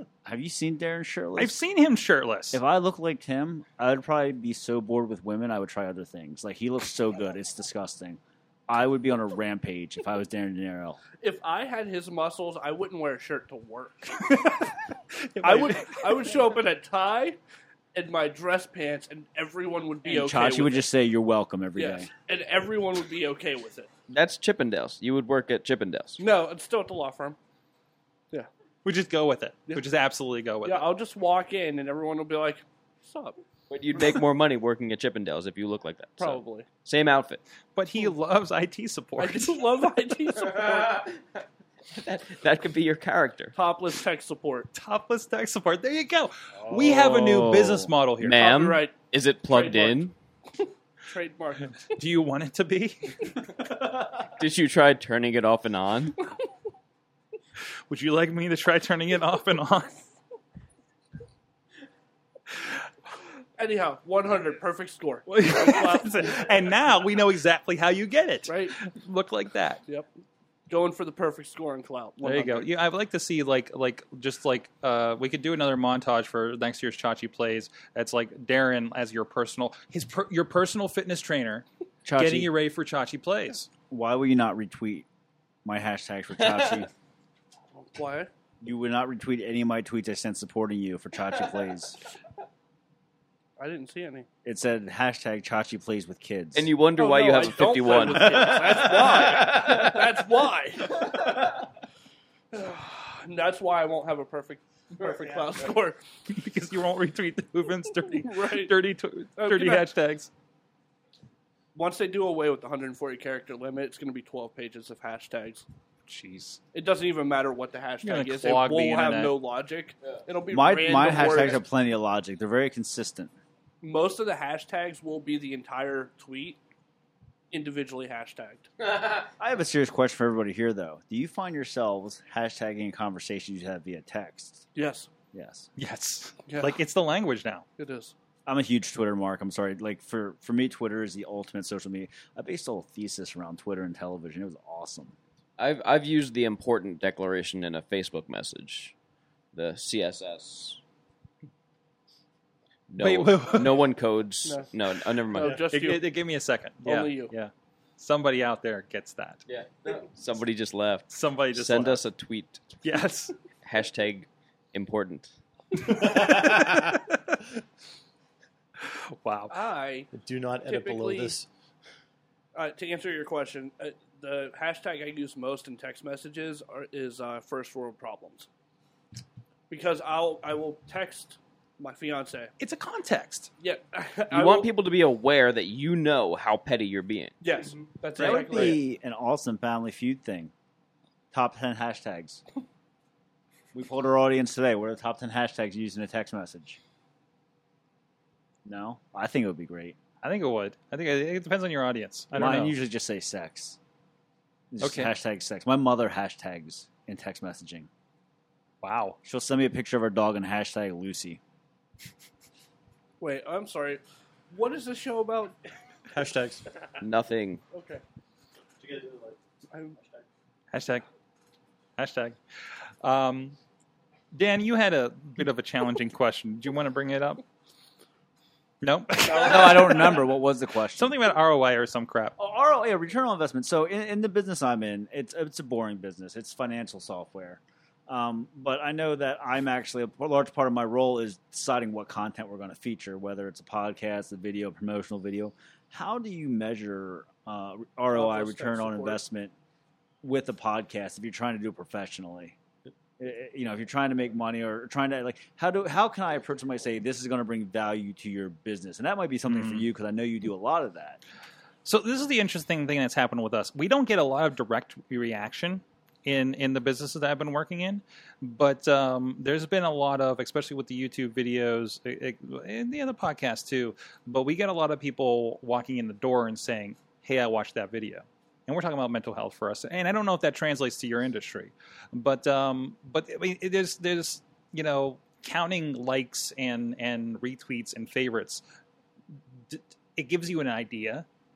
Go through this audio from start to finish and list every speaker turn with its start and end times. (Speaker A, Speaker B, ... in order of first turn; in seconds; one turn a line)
Speaker A: 0.2-1.6
Speaker B: 1.4-2.6
Speaker A: 2.5-11.0
Speaker C: 11.2-14.3
Speaker B: 15.3-16.2
Speaker C: 15.4-17.4
Speaker C: 17.9-20.9
Speaker A: 20.1-22.1
Speaker C: 21.7-23.9
Speaker D: 24.1-26.2
Speaker C: 26.2-27.4
Speaker B: 28.8-30.9
Speaker C: 30.6-33.4
Speaker D: 33.7-37.4
Speaker C: 36.2-36.7
Speaker B: 37.8-39.6
Speaker C: 39.2-41.1
Speaker D: 40.4-41.2
Speaker D: 41.9-43.5
Speaker C: 43.5-44.7
Speaker B: 44.7-48.4
Speaker A: 46.6-47.9
Speaker D: 48.2-50.1
Speaker C: 48.3-49.0
Speaker C: 49.5-51.8
Speaker B: 51.9-53.5
Speaker D: 54.2-56.2
Speaker B: 57.9-60.1
Speaker B: 62.5-62.8
Speaker C: 63.6-66.5
Speaker B: 65.3-69.8
Speaker C: 68.5-68.8
Speaker C: 70.7-72.7
Speaker B: 72.2-83.7
Speaker A: 82.0-82.5
Speaker A: 83.9-85.0
Speaker A: 85.6-86.9
Speaker C: 87.7-88.3
Speaker A: 88.6-92.0
Speaker C: 93.6-94.3
Speaker A: 94.4-96.8
Speaker D: 96.5-99.0
Speaker C: 97.0-101.5
Speaker C: 102.5-106.0
Speaker B: 106.3-110.3
Speaker C: 108.1-108.8
Speaker C: 109.3-109.9
Speaker C: 111.7-115.6
Speaker B: 116.1-116.6
Speaker C: 116.7-121.6
Speaker B: 118.0-119.3
Speaker A: 120.5-123.3
Speaker C: 123.8-126.6
Speaker C: 127.5-128.7
Speaker A: 129.4-134.7
Speaker C: 134.7-135.1
Speaker A: 135.3-135.7
Speaker B: 135.8-137.7
Speaker C: 136.4-136.8
Speaker C: 137.8-138.1
Speaker A: 138.4-145.1
Speaker D: 145.6-148.9
Speaker D: 149.5-150.8
Speaker D: 152.9-155.6
Speaker B: 153.0-153.8
Speaker C: 154.4-154.7
Speaker C: 155.3-156.1
Speaker E: 155.4-155.6
Speaker B: 155.7-159.4
Speaker C: 156.8-157.3
Speaker D: 159.5-162.8
Speaker B: 161.1-162.0
Speaker B: 162.8-163.3
Speaker D: 163.6-165.3
Speaker E: 165.8-167.0
Speaker B: 166.0-167.4
Speaker B: 168.8-169.5
Speaker C: 169.5-170.1
Speaker E: 170.1-171.5
Speaker C: 170.6-171.4
Speaker C: 172.5-178.5
Speaker C: 179.7-182.5
Speaker B: 182.6-183.5
Speaker C: 183.6-184.7
Speaker D: 184.3-187.4
Speaker C: 187.4-188.8
Speaker A: 188.2-190.5
Speaker A: 191.3-192.4
Speaker A: 193.7-196.8
Speaker A: 198.6-200.0
Speaker B: 200.2-202.8
Speaker A: 202.3-203.8
Speaker A: 204.7-207.9
Speaker B: 204.8-205.1
Speaker B: 208.8-209.2
Speaker A: 209.2-211.4
Speaker C: 213.2-215.6
Speaker E: 216.1-216.7
Speaker D: 217.0-217.6
Speaker C: 217.7-218.0
Speaker E: 218.8-219.4
Speaker C: 219.7-220.0
Speaker B: 220.7-221.1
Speaker B: 222.0-222.4
Speaker B: 223.0-223.6
Speaker B: 224.3-227.4
Speaker B: 228.8-230.2
Speaker A: 229.2-231.2
Speaker B: 230.9-232.3
Speaker A: 232.4-249.5
Speaker C: 248.1-249.2
Speaker A: 250.2-252.6
Speaker A: 253.2-261.2
Speaker B: 259.4-259.9
Speaker B: 261.8-288.6
Speaker B: 289.6-291.2